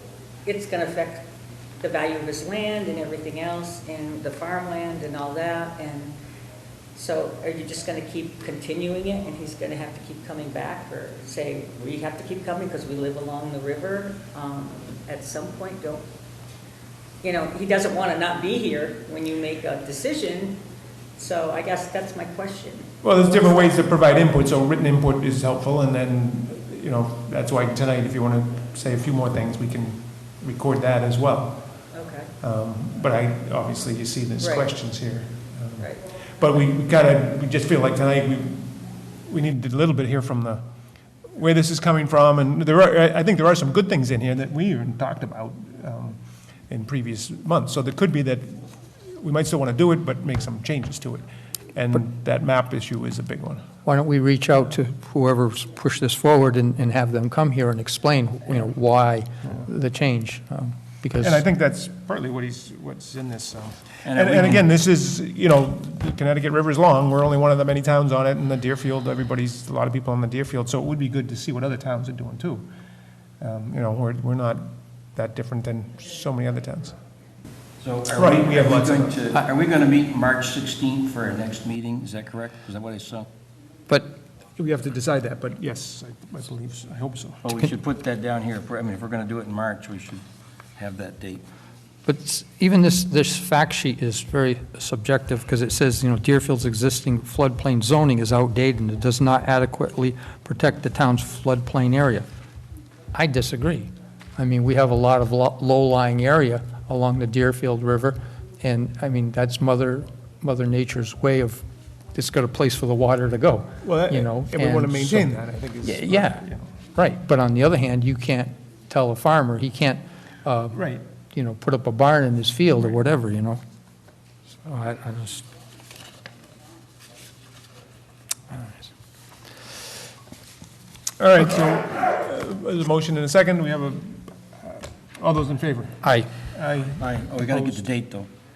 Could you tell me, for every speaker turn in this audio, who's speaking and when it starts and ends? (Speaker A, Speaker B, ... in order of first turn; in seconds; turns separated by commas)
Speaker A: 0.4-1.2, Speaker A: 1.8-6.1, Speaker A: 6.9-16.0, Speaker A: 17.2-20.6, Speaker A: 21.1-22.9, Speaker B: 23.0-31.6, Speaker A: 31.9-32.3, Speaker B: 32.4-35.9, Speaker A: 34.4-34.7, Speaker A: 35.8-36.0, Speaker B: 36.4-40.6, Speaker B: 41.3-53.6, Speaker C: 53.8-61.4, Speaker B: 61.2-72.7, Speaker D: 64.0-64.6, Speaker B: 73.4-77.0, Speaker D: 77.8-83.3, Speaker B: 78.1-79.2, Speaker C: 83.9-84.2, Speaker B: 84.6-87.4, Speaker D: 87.4-90.2, Speaker D: 90.8-91.4, Speaker C: 92.0-102.2, Speaker C: 103.1-111.6, Speaker C: 112.1-123.6, Speaker B: 113.8-116.7, Speaker B: 120.7-121.0, Speaker C: 124.6-125.4, Speaker C: 128.5-128.8, Speaker B: 131.2-137.8, Speaker C: 136.0-136.3, Speaker D: 137.0-138.3